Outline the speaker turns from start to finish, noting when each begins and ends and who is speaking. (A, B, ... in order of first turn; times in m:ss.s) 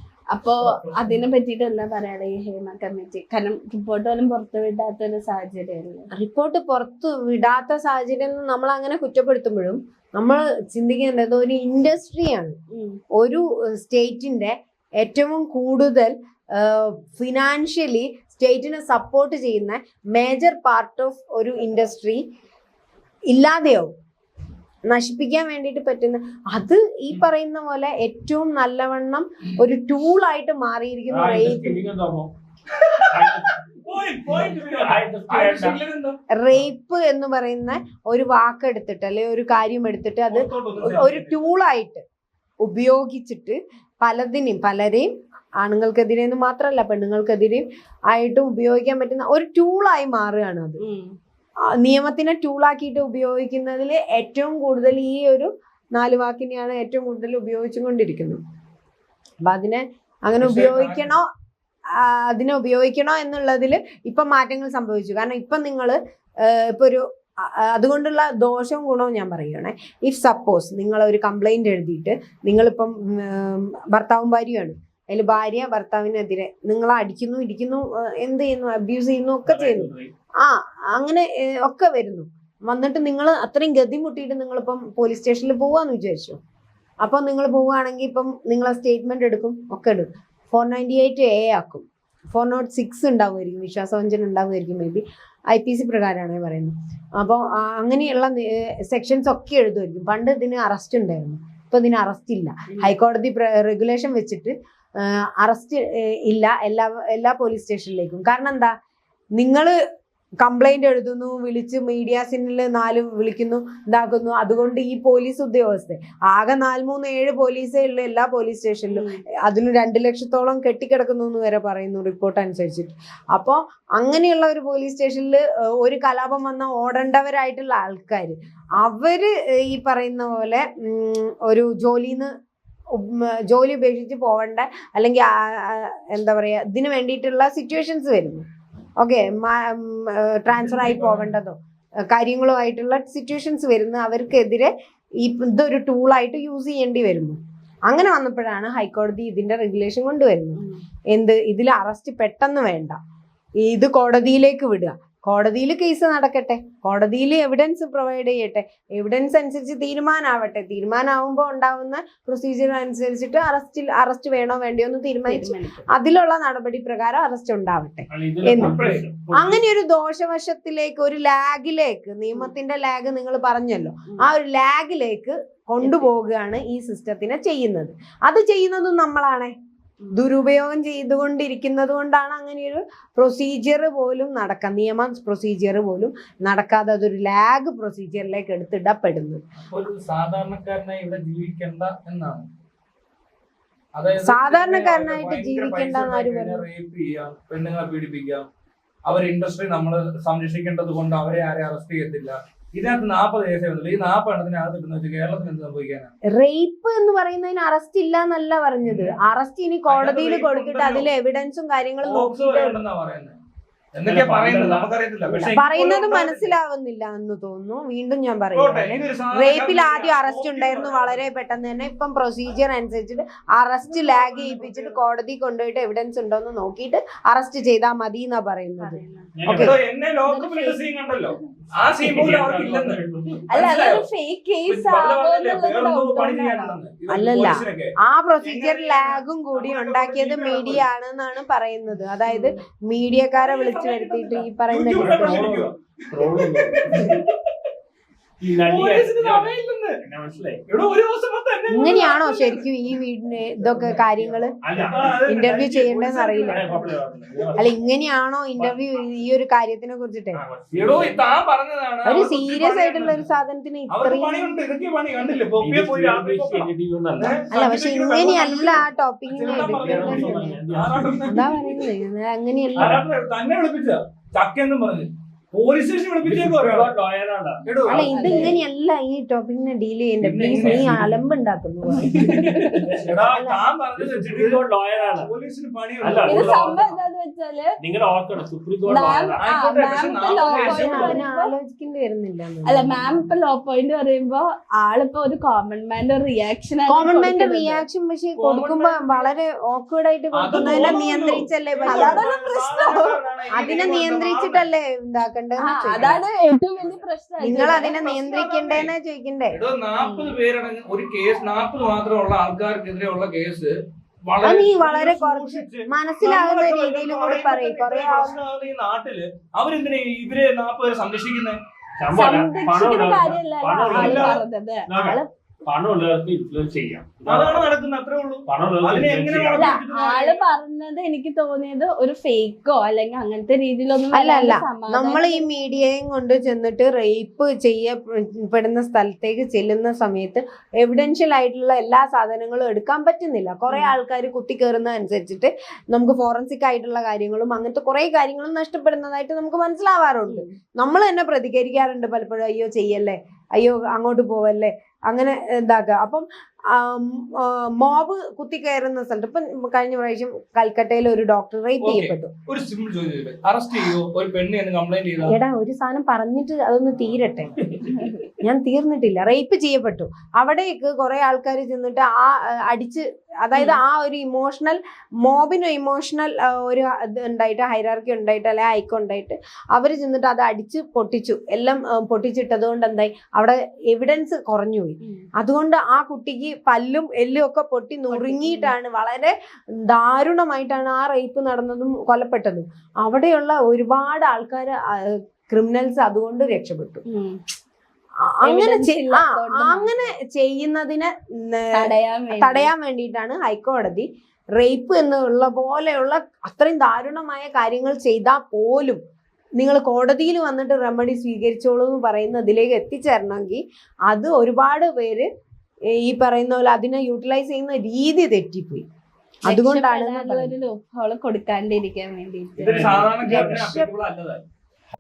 0:00.3-0:06.1 A
0:00.7-0:01.1 B
0:06.2-0:12.6 C
0:12.7-0:13.0 A
0:13.2-0:22.2 C
0:23.3-0:23.9 C
0:24.9-0:31.8 C
0:31.1-0:32.3 B
0:32.7-0:36.2 D
0:33.1-0:33.6 B
0:34.2-0:35.8 B
0:36.4-0:42.0 C
0:40.3-0:41.4 D
0:42.6-0:50.8 C
0:50.8-0:51.1 A
0:51.8-0:58.4 C
0:59.4-1:01.3 C
1:00.4-1:01.1 D
1:02.0-1:19.9 C
1:19.5-1:20.1 B
1:20.4-1:26.4 C
1:27.0-1:48.7 C
1:42.7-1:43.0 A
1:49.4-1:49.7 C
1:50.4-2:12.3 C
1:58.9-1:59.2 A
2:12.9-2:18.4 C
2:19.0-2:21.6 C
2:20.5-2:21.4 D
2:22.1-2:24.7 C
2:25.2-2:30.6 C
2:30.6-2:30.8 A
2:31.1-2:33.0 C
2:33.6-2:48.8 C
2:45.3-2:45.9 A
2:48.1-2:49.6 B
2:48.6-2:49.0 D
2:49.3-2:59.5 C
3:00.1-3:09.4 C
3:09.6-3:12.5 D
3:14.0-3:18.5 D
3:14.2-3:16.6 C
3:19.1-3:26.1 D
3:26.3-3:32.8 C
3:28.8-3:29.1 D
3:29.9-3:31.1 D
3:32.0-3:33.4 D
3:33.9-3:36.6 D
3:34.0-3:35.5 B
3:35.5-3:49.8 C
3:38.6-3:41.2 D
3:43.9-3:45.0 D
3:48.8-3:49.3 A
3:49.4-3:49.8 B
3:49.5-3:54.0 D
3:50.2-3:50.8 A
3:52.0-3:53.5 B
3:53.5-3:56.8 A
3:54.7-4:00.9 D
3:57.1-4:05.6 C
4:02.3-4:02.6 A
4:03.4-4:07.5 D
4:04.9-4:07.2 B
4:08.4-4:10.6 B
4:08.6-4:10.0 D
4:10.7-4:12.6 D
4:11.7-4:14.6 C
4:13.6-4:15.1 B
4:14.7-4:16.8 D
4:15.1-4:16.9 C
4:16.5-4:17.8 B
4:17.6-4:20.4 C
4:18.6-4:19.1 B
4:20.3-4:21.3 B
4:20.7-4:23.2 D
4:22.0-4:24.6 C
4:23.9-4:31.9 D
4:25.6-4:27.4 B
4:27.5-4:30.6 C
4:29.6-4:31.3 B
4:31.3-4:33.1 C
4:32.8-4:36.9 D
4:36.2-4:37.6 B
4:37.6-4:38.5 D
4:37.8-4:42.5 C
4:38.0-4:38.6 A
4:40.2-4:41.2 D
4:40.6-4:41.0 B
4:42.1-4:42.9 B
4:42.2-4:42.9 A
4:43.0-4:46.8 D
4:43.2-4:43.6 C
4:44.0-4:45.3 B
4:46.0-4:47.0 B
4:46.3-4:47.7 A
4:47.8-4:49.4 B
4:48.9-4:51.5 A
4:49.4-4:51.2 D
4:50.5-4:53.2 C
4:52.7-4:57.8 A
4:56.9-5:02.2 C
4:58.4-4:59.3 D
5:00.4-5:04.6 D
5:00.5-5:01.0 A
5:01.8-5:03.2 A
5:03.5-5:06.2 C
5:05.6-5:08.0 A
5:07.4-5:09.6 C
5:07.5-5:08.9 D
5:09.5-5:13.7 D
5:10.0-5:10.4 A
5:14.2-5:21.6 D
5:14.4-5:18.4 C
5:22.0-5:24.4 B
5:22.1-5:25.3 A
5:23.9-5:24.4 D
5:24.9-5:27.7 B
5:27.3-5:30.4 D
5:28.5-5:29.8 B
5:29.5-5:35.4 A
5:34.1-6:02.3 C
5:43.7-5:43.9 A
5:50.3-5:50.6 A
6:01.8-6:05.4 D
6:05.3-6:07.5 C
6:07.0-6:08.3 B
6:08.4-6:37.0 C
6:25.0-6:25.3 A
6:28.1-6:28.7 A
6:37.1-6:37.4 A
6:38.3-6:49.0 C
6:38.4-6:39.9 A
6:41.7-6:42.7 A
6:49.6-6:55.3 C
6:55.9-6:58.8 C
6:59.5-7:02.8 A
6:59.5-7:00.5 C
7:02.6-7:04.4 D
7:02.6-7:03.7 B
7:03.2-7:03.9 C